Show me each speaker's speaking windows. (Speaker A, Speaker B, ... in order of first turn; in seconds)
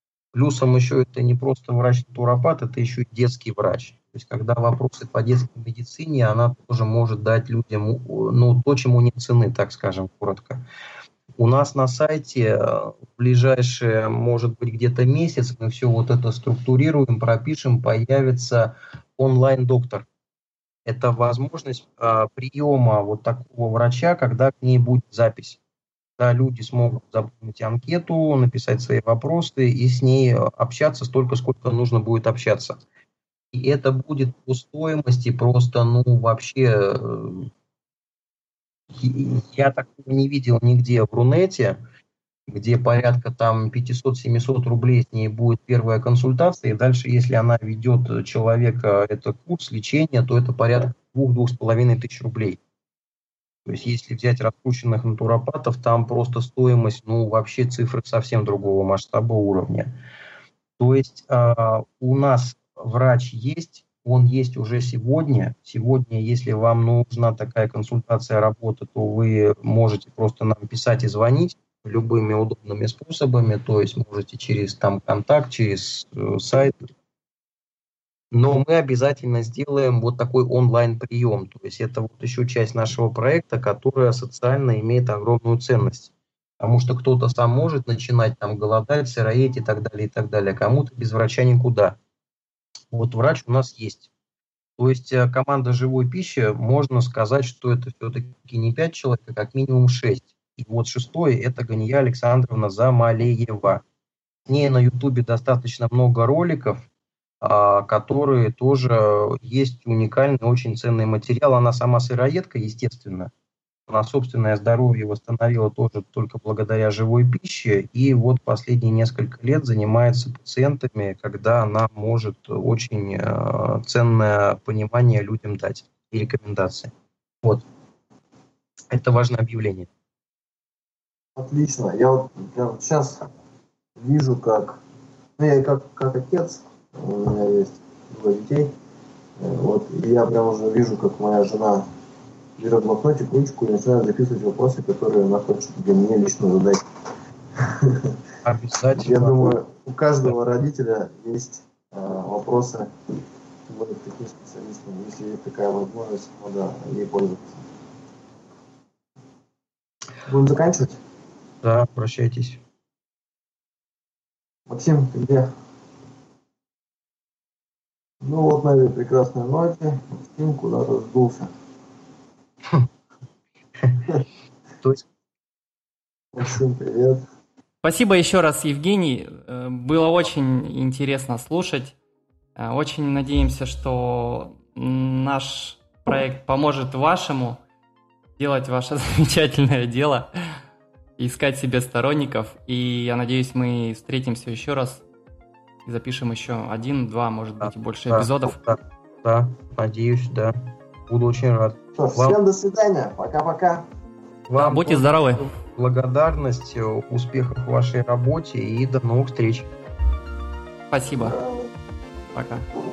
Speaker A: 0.3-10.6, 11.4-20.1, 20.9-25.6, 26.2-32.8, 33.5-37.5, 38.9-41.8, 42.5-52.6, 53.6-60.0, 60.8-76.9, 78.3-92.0, 92.9-94.1, 94.8-103.8, 104.5-106.8, 107.4-113.3, 113.9-126.9, 128.9-129.9, 148.4-149.6, 161.6-162.6, 197.6-200.6, 201.1-202.4, 204.5-209.7
Speaker B: 131.3-133.3, 134.0-134.8, 135.4-138.7, 139.4-141.9, 142.6-146.8, 147.6-148.1, 148.9-152.9, 153.7-157.7, 160.2-161.0, 164.7-165.5, 168.2-171.5, 176.3-177.2, 202.0-203.9, 211.2-211.5
Speaker C: 177.8-181.9, 182.6-187.6, 188.4-190.6, 191.2-195.0, 195.8-198.6, 204.6-205.5, 210.9-211.4, 212.3-212.7